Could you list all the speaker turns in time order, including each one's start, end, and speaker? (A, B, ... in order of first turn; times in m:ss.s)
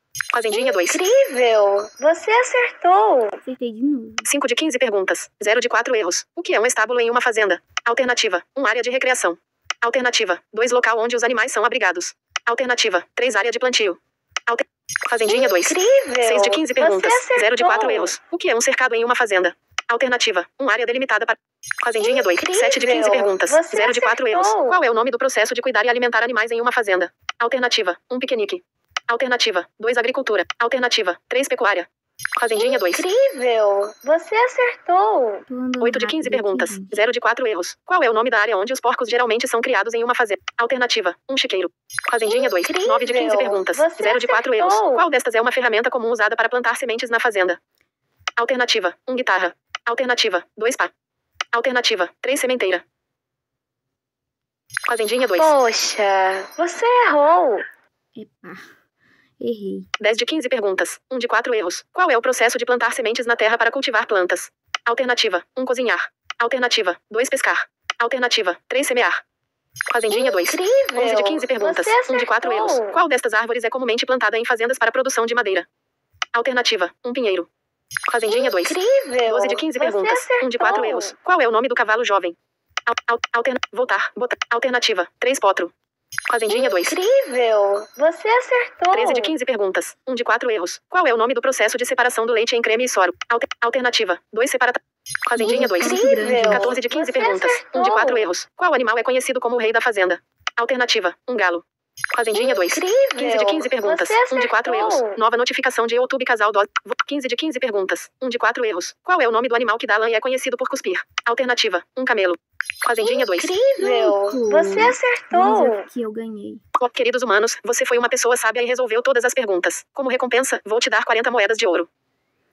0:00.3-0:01.0 A
0:00.5-0:03.4 B
0:03.4-0:04.3 C
0:04.2-0:33.0 A
0:15.2-0:18.1 B
0:22.0-0:24.8 B
0:32.5-0:35.4 B
0:35.5-0:37.0 C
0:35.8-0:47.6 A
0:42.2-0:45.0 B
0:48.4-0:50.9 A
0:51.5-0:52.8 A
0:54.9-0:55.5 A
0:55.4-0:57.6 B
0:58.2-0:58.7 C
0:59.4-0:59.9 C
1:00.0-1:09.2 A
1:09.9-1:15.7 A
1:10.1-1:13.0 B
1:16.3-1:17.5 A
1:18.1-1:25.7 A
1:18.3-1:21.1 B
1:26.3-1:27.0 A
1:26.5-1:29.3 B
1:28.9-1:53.5 A
1:35.3-1:36.7 C
1:35.5-1:38.2 B
1:42.3-1:45.2 B
1:53.0-1:55.8 B
1:53.8-1:56.6 C
1:56.8-2:01.9 A